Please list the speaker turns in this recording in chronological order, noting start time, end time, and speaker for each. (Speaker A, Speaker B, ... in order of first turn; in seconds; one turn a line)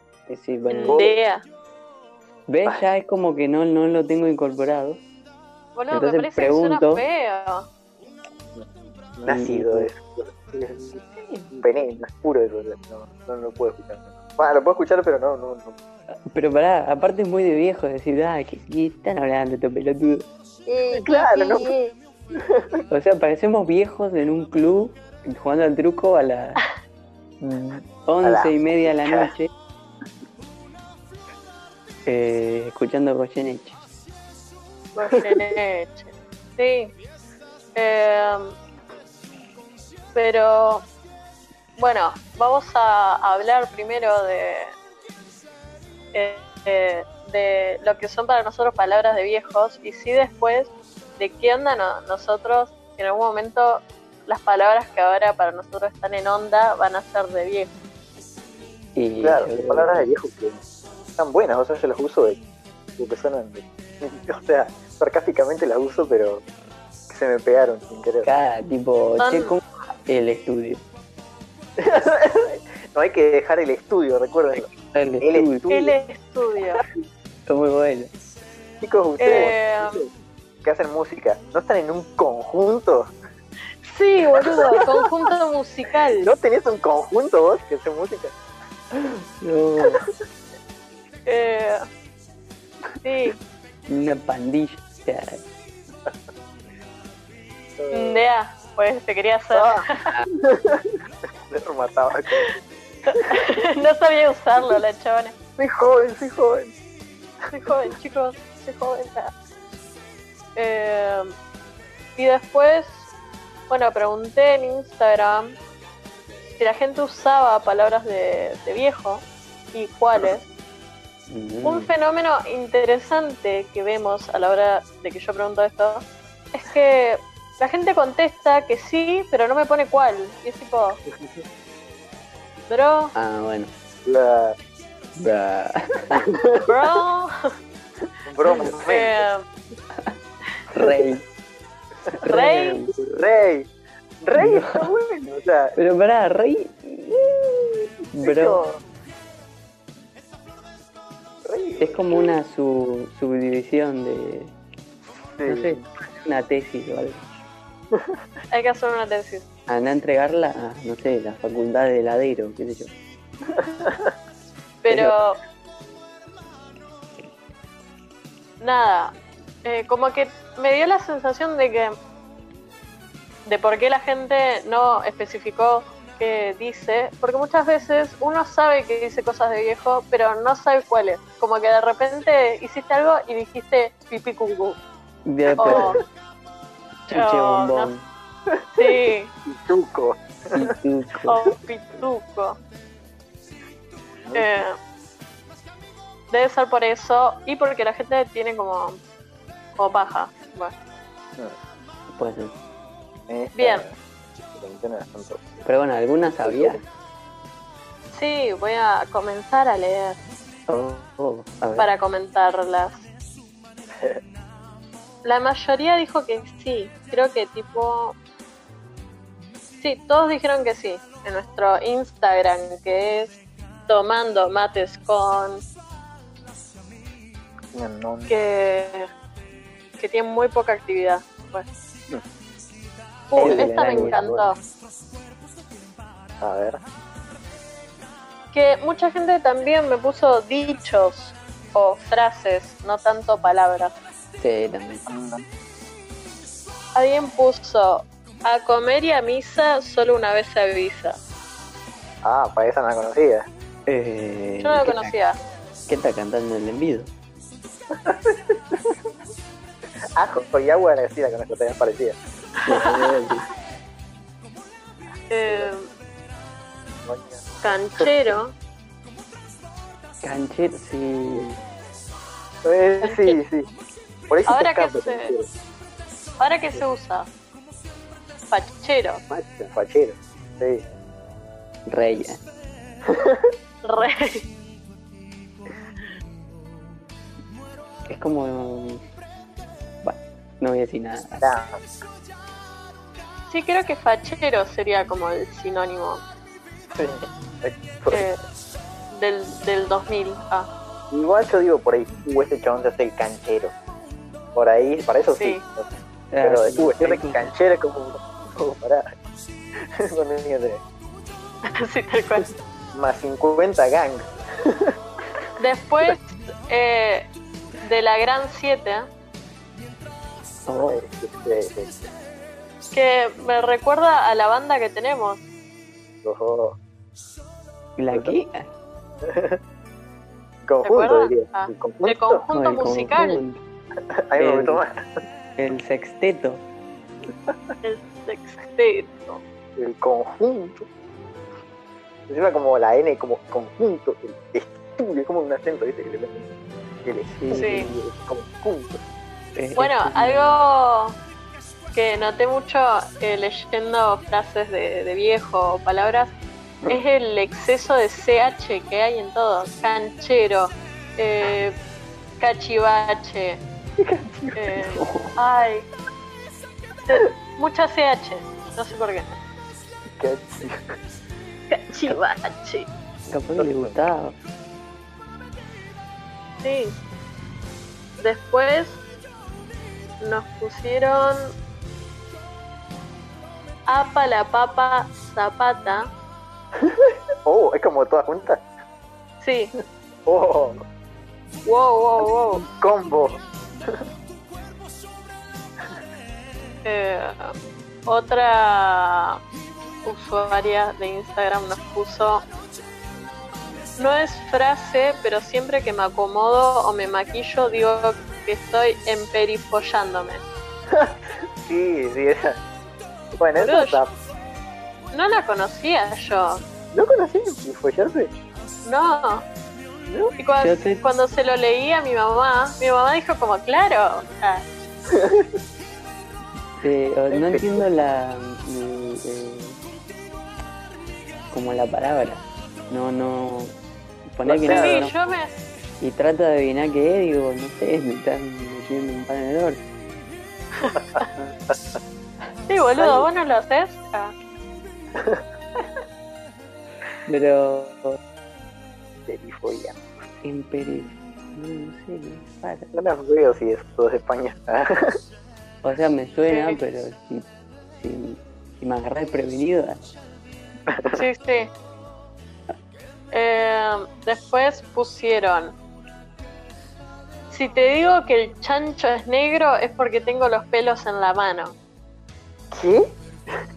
Speaker A: 0.3-1.0
Speaker B: 0.7-1.4
Speaker C: 0.9-1.1
Speaker A: 2.5-5.0
Speaker B: 5.8-7.7
Speaker A: 5.9-7.0
Speaker C: 9.2-15.8
Speaker A: 9.3-9.9
Speaker A: 11.1-11.5
Speaker A: 16.3-20.2
Speaker B: 20.7-21.6
Speaker C: 20.9-21.7
Speaker C: 22.3-22.8
Speaker A: 22.9-26.6
Speaker A: 27.4-29.5
Speaker C: 28.2-29.3
Speaker A: 32.1-33.8
Speaker B: 35.0-36.9
Speaker B: 37.8-38.6
Speaker B: 40.1-40.9
Speaker B: 41.8-44.8
Speaker B: 46.1-57.7
Speaker A: 59.0-60.1
Speaker C: 59.2-60.6
Speaker C: 61.2-62.4
Speaker C: 63.0-66.4
Speaker C: 67.1-68.3
Speaker A: 68.2-70.8
Speaker B: 69.2-69.5
Speaker C: 71.8-74.7
Speaker A: 74.7-75.7
Speaker C: 75.2-75.9
Speaker B: 75.7-76.8
Speaker A: 77.5-78.1
Speaker C: 78.8-80.1
Speaker B: 79.2-80.0
Speaker C: 80.6-83.1
Speaker B: 83.8-86.3
Speaker C: 84.4-85.1
Speaker C: 86.2-88.3
Speaker A: 88.9-90.0
Speaker B: 91.3-91.8
Speaker B: 93.0-93.4
Speaker A: 93.9-95.4
Speaker C: 97.8-98.3
Speaker B: 97.9-100.1
Speaker C: 99.5-102.5
Speaker B: 102.3-105.3
Speaker C: 105.6-106.7
Speaker B: 107.5-109.3
Speaker B: 110.6-111.3
Speaker B: 112.2-113.1
Speaker B: 113.7-115.6
Speaker B: 116.6-120.5
Speaker A: 121.3-121.9
Speaker B: 121.6-131.0
Speaker B: 132.7-133.1
Speaker A: 133.2-133.7
Speaker C: 134.1-134.6
Speaker A: 135.2-136.2
Speaker C: 136.1-136.7
Speaker B: 136.7-137.3
Speaker C: 138.3-139.3
Speaker B: 138.4-139.4
Speaker A: 140.7-141.2
Speaker C: 140.8-141.1
Speaker A: 142.2-142.9
Speaker B: 142.3-142.8
Speaker C: 143.0-143.7
Speaker C: 144.2-145.8
Speaker A: 144.4-144.9
Speaker A: 145.8-148.6
Speaker C: 148.2-148.8
Speaker C: 151.4-152.4
Speaker A: 151.8-154.5
Speaker C: 155.4-155.8
Speaker A: 155.4-157.4
Speaker C: 157.9-158.2
Speaker B: 158.5-159.5
Speaker A: 159.7-162.9
Speaker C: 163.5-164.1
Speaker B: 164.8-165.4
Speaker A: 164.9-165.2
Speaker B: 168.6-172.0
Speaker B: 173.5-184.8
Speaker A: 185.3-186.0
Speaker B: 185.6-186.0
Speaker C: 185.6-186.0
Speaker A: 187.1-188.1
Speaker B: 187.1-187.9
Speaker C: 188.5-190.8
Speaker B: 188.8-189.3
Speaker A: 190.5-191.4
Speaker B: 191.2-192.6
Speaker C: 194.3-194.5
Speaker B: 194.3-194.8
Speaker B: 196.3-199.0
Speaker B: 199.8-200.7
Speaker A: 202.2-202.5
Speaker C: 203.3-203.9
Speaker B: 203.6-203.9
Speaker C: 204.5-205.6
Speaker A: 205.6-206.8
Speaker C: 206.4-206.8
Speaker B: 208.1-210.2
Speaker A: 210.7-211.9
Speaker B: 211.8-213.1
Speaker C: 213.9-214.2
Speaker B: 215.2-218.2
Speaker B: 219.8-225.6
Speaker C: 227.7-228.3
Speaker B: 228.3-229.1
Speaker B: 230.0-231.7
Speaker B: 233.3-234.6
Speaker C: 233.3-234.2
Speaker A: 233.4-234.5
Speaker C: 236.4-236.8
Speaker B: 238.5-243.9
Speaker A: 244.4-245.1
Speaker C: 245.1-245.4
Speaker B: 246.9-251.2
Speaker C: 252.2-253.5
Speaker A: 253.9-255.1
Speaker B: 254.6-255.4
Speaker A: 255.9-257.1
Speaker C: 257.9-258.6
Speaker C: 260.2-262.2
Speaker B: 262.6-262.9
Speaker A: 262.7-263.5
Speaker B: 265.3-265.9
Speaker C: 267.0-268.3
Speaker B: 267.6-268.5
Speaker A: 270.2-271.6
Speaker C: 272.6-273.7
Speaker B: 273.0-273.4
Speaker C: 274.3-275.5
Speaker B: 274.5-275.3
Speaker B: 276.4-277.3
Speaker B: 278.5-279.2
Speaker C: 279.3-280.8
Speaker A: 281.9-282.4
Speaker C: 283.1-283.5
Speaker B: 283.8-284.5
Speaker A: 288.1-289.0
Speaker A: 290.0-291.5
Speaker C: 291.4-291.8
Speaker B: 293.5-296.2
Speaker C: 296.9-298.3
Speaker B: 298.1-298.4
Speaker B: 299.1-300.7
Speaker C: 301.1-303.7
Speaker C: 304.6-309.1
Speaker B: 305.4-305.6
Speaker A: 306.3-307.5
Speaker C: 309.8-310.8
Speaker B: 311.7-312.5
Speaker C: 312.9-314.9
Speaker B: 315.6-317.3
Speaker B: 317.8-319.1
Speaker A: 320.7-321.0
Speaker C: 320.8-322.0
Speaker B: 322.9-325.4
Speaker C: 326.2-326.8
Speaker A: 328.0-328.7
Speaker C: 328.1-328.4
Speaker C: 329.2-329.6
Speaker C: 330.6-332.4
Speaker B: 330.8-333.4
Speaker A: 332.5-333.6
Speaker C: 334.1-335.0
Speaker A: 334.4-334.8
Speaker A: 335.6-336.6
Speaker B: 337.8-339.4
Speaker C: 339.8-340.9
Speaker C: 342.3-346.5
Speaker C: 347.0-349.0
Speaker A: 347.3-347.9
Speaker B: 347.5-347.9
Speaker A: 349.6-350.6
Speaker B: 349.8-351.2
Speaker B: 351.9-356.4
Speaker B: 356.9-361.8
Speaker B: 362.4-363.6
Speaker C: 364.0-364.8
Speaker B: 364.6-365.9
Speaker A: 365.0-365.3
Speaker B: 367.1-369.4
Speaker C: 370.2-370.8
Speaker B: 371.7-372.9
Speaker A: 373.3-374.4
Speaker C: 373.6-374.0
Speaker B: 376.6-377.0
Speaker B: 378.2-379.0
Speaker B: 380.2-381.5
Speaker B: 383.9-386.1
Speaker C: 386.8-388.6
Speaker B: 389.4-389.7
Speaker C: 390.3-390.8
Speaker B: 391.7-392.6
Speaker C: 392.6-394.0
Speaker B: 396.9-397.5
Speaker B: 398.1-399.4
Speaker B: 400.0-402.4
Speaker B: 404.0-410.4
Speaker C: 410.9-412.6
Speaker C: 413.3-414.1
Speaker B: 413.6-414.0
Speaker B: 415.1-416.6
Speaker C: 416.9-418.3
Speaker B: 418.9-419.4
Speaker C: 420.1-420.4
Speaker B: 420.4-424.6
Speaker A: 420.6-421.0
Speaker C: 425.1-425.5
Speaker A: 426.8-429.8
Speaker C: 427.3-427.9
Speaker A: 431.5-433.8
Speaker A: 434.3-435.2
Speaker C: 434.4-435.1
Speaker B: 434.7-435.5
Speaker A: 436.0-439.8
Speaker B: 440.8-441.3
Speaker C: 441.0-441.9
Speaker B: 442.7-444.3
Speaker C: 443.0-443.3
Speaker C: 445.1-445.4
Speaker A: 447.3-448.2
Speaker C: 449.3-450.1
Speaker A: 450.4-452.9
Speaker C: 452.9-455.2
Speaker A: 455.8-460.0
Speaker B: 456.5-456.8
Speaker C: 460.9-461.2
Speaker B: 461.1-461.7
Speaker B: 463.3-465.8
Speaker B: 467.5-471.8
Speaker C: 472.7-473.6